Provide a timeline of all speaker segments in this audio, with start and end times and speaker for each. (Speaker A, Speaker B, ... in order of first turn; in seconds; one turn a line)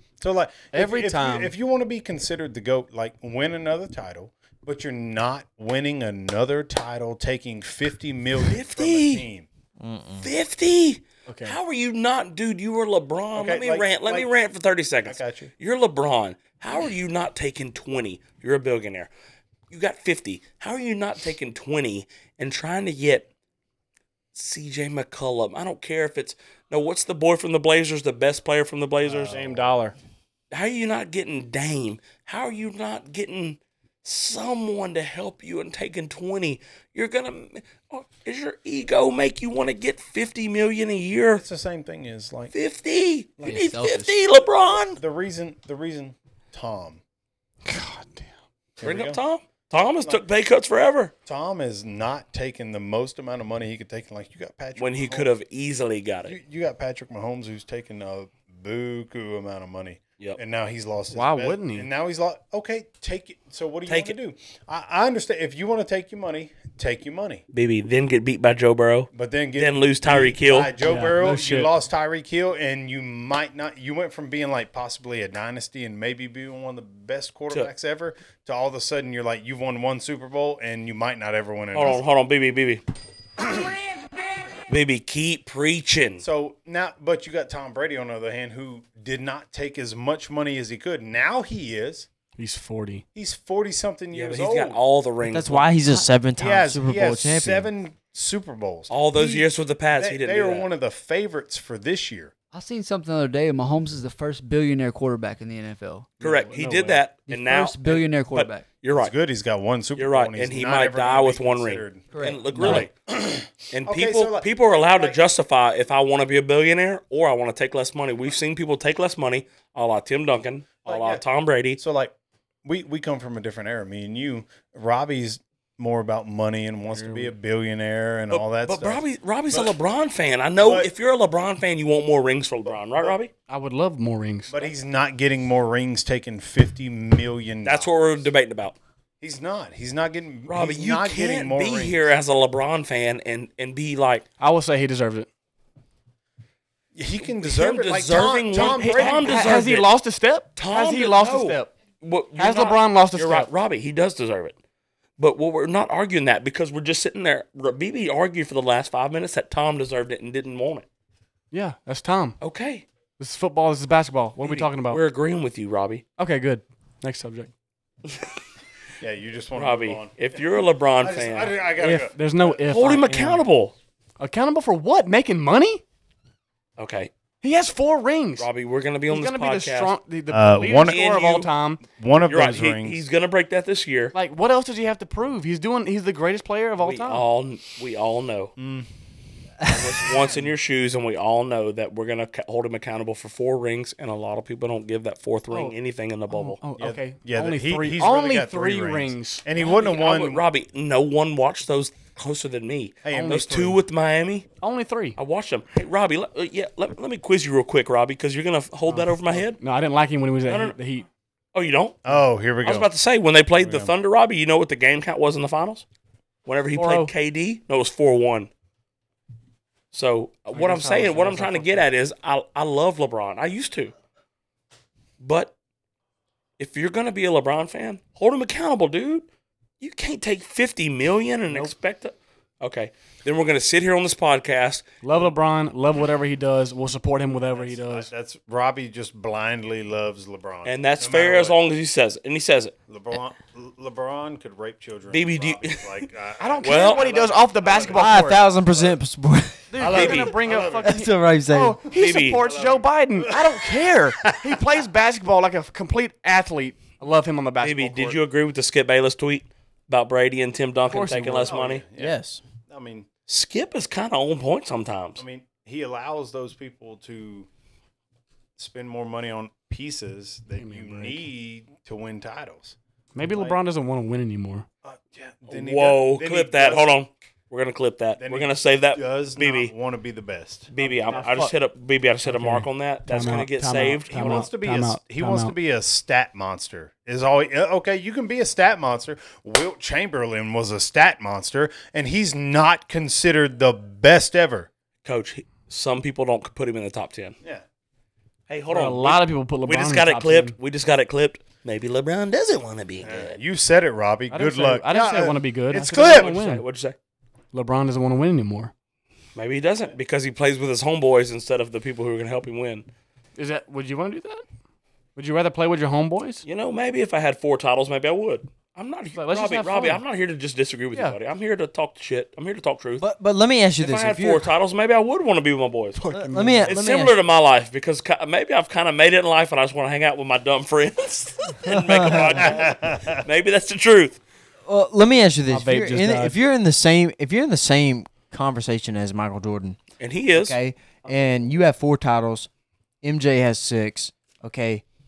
Speaker A: 0.2-9.5
Speaker B: 0.7-1.5
Speaker C: 8.4-9.2
Speaker D: 9.8-10.3
Speaker C: 10.2-19.1
Speaker B: 11.3-11.6
Speaker A: 13.3-14.3
Speaker A: 15.0-15.5
Speaker C: 19.7-23.3
Speaker C: 24.3-29.4
Speaker A: 29.0-29.8
Speaker B: 29.3-29.9
Speaker C: 30.5-41.4
Speaker A: 41.4-42.5
Speaker C: 42.5-45.0
Speaker A: 43.4-43.7
Speaker E: 43.7-44.1
Speaker A: 45.0-47.0
Speaker B: 47.6-48.3
Speaker A: 48.8-49.2
Speaker C: 48.8-51.1
Speaker A: 51.2-55.3
Speaker C: 54.8-56.4
Speaker A: 56.2-67.4
Speaker B: 61.1-61.9
Speaker C: 63.9-64.1
Speaker C: 67.5-70.7
Speaker A: 69.1-82.0
Speaker B: 70.8-71.7
Speaker C: 81.7-82.8
Speaker C: 84.7-86.2
Speaker A: 86.2-92.1
Speaker B: 92.4-93.0
Speaker A: 93.1-94.8
Speaker C: 94.1-95.7
Speaker D: 95.2-97.7
Speaker A: 96.4-102.3
Speaker C: 98.9-100.7
Speaker E: 102.5-106.1
Speaker B: 106.2-107.0
Speaker C: 106.2-109.1
Speaker E: 107.3-108.6
Speaker A: 109.0-115.2
Speaker C: 110.0-112.9
Speaker E: 112.1-112.9
Speaker C: 113.7-121.8
Speaker A: 120.8-121.2
Speaker A: 121.8-122.1
Speaker A: 122.6-129.8
Speaker B: 126.9-127.4
Speaker C: 128.3-133.3
Speaker A: 130.6-130.9
Speaker A: 132.7-133.2
Speaker B: 133.5-134.6
Speaker A: 134.5-137.9
Speaker C: 137.6-138.8
Speaker A: 139.2-142.1
Speaker C: 140.5-144.2
Speaker B: 144.4-145.3
Speaker A: 146.9-149.6
Speaker C: 147.2-149.9
Speaker B: 148.6-151.7
Speaker C: 150.6-154.5
Speaker B: 152.3-153.5
Speaker C: 155.2-160.8
Speaker B: 161.5-162.4
Speaker C: 162.4-162.8
Speaker B: 163.2-165.0
Speaker C: 164.4-166.0
Speaker B: 166.2-167.5
Speaker A: 169.0-170.1
Speaker C: 169.5-171.6
Speaker A: 171.0-172.9
Speaker B: 171.8-173.4
Speaker C: 172.7-173.7
Speaker B: 174.2-175.8
Speaker C: 176.8-177.1
Speaker B: 177.4-178.5
Speaker C: 178.4-179.9
Speaker B: 179.1-181.8
Speaker A: 180.3-181.0
Speaker C: 180.8-181.5
Speaker A: 181.9-183.0
Speaker C: 182.2-184.1
Speaker B: 184.1-187.2
Speaker C: 186.8-188.5
Speaker A: 188.6-188.9
Speaker C: 189.6-196.6
Speaker B: 196.3-199.4
Speaker A: 196.8-200.4
Speaker C: 199.6-204.5
Speaker A: 203.0-203.8
Speaker B: 203.1-203.4
Speaker B: 204.6-205.2
Speaker C: 205.2-209.6
Speaker B: 208.9-211.1
Speaker C: 210.4-210.8
Speaker C: 211.5-212.0
Speaker A: 212.0-212.9
Speaker C: 212.6-215.8
Speaker A: 213.5-213.9
Speaker C: 216.4-218.5
Speaker B: 216.7-217.1
Speaker C: 219.9-223.9
Speaker B: 220.5-221.8
Speaker C: 225.2-225.5
Speaker C: 226.6-229.3
Speaker C: 229.8-234.8
Speaker B: 235.0-238.1
Speaker A: 237.5-241.6
Speaker C: 240.6-242.7
Speaker A: 242.9-249.0
Speaker C: 245.1-246.1
Speaker B: 246.4-248.4
Speaker C: 246.6-247.1
Speaker D: 247.9-250.0
Speaker B: 249.7-258.2
Speaker A: 249.8-251.0
Speaker C: 249.9-250.4
Speaker D: 250.8-251.8
Speaker C: 251.9-252.4
Speaker A: 252.3-253.6
Speaker A: 254.2-254.5
Speaker C: 257.6-261.8
Speaker B: 260.9-261.5
Speaker A: 261.4-263.1
Speaker D: 262.0-262.4
Speaker C: 263.3-265.2
Speaker A: 265.2-267.5
Speaker A: 268.6-273.6
Speaker B: 270.5-271.2
Speaker B: 273.1-274.6
Speaker A: 274.8-276.9
Speaker C: 275.5-279.7
Speaker A: 278.2-281.5
Speaker C: 280.7-284.5
Speaker B: 281.2-281.5
Speaker B: 282.2-285.5
Speaker A: 283.8-294.7
Speaker C: 295.0-297.3
Speaker C: 298.5-303.4
Speaker B: 298.7-300.6
Speaker A: 303.0-306.4
Speaker B: 304.3-306.6
Speaker C: 306.1-306.9
Speaker B: 307.5-308.7
Speaker C: 309.4-312.9
Speaker B: 313.4-314.4
Speaker B: 315.1-316.4
Speaker C: 316.4-323.1
Speaker B: 319.1-320.0
Speaker D: 323.0-324.5
Speaker C: 323.8-326.0
Speaker D: 325.9-327.2
Speaker B: 326.1-326.7
Speaker C: 326.6-334.2
Speaker D: 331.6-332.5
Speaker A: 332.4-333.2
Speaker D: 334.6-339.8
Speaker B: 335.5-336.4
Speaker C: 340.0-340.6
Speaker D: 340.3-342.5
Speaker D: 343.0-344.8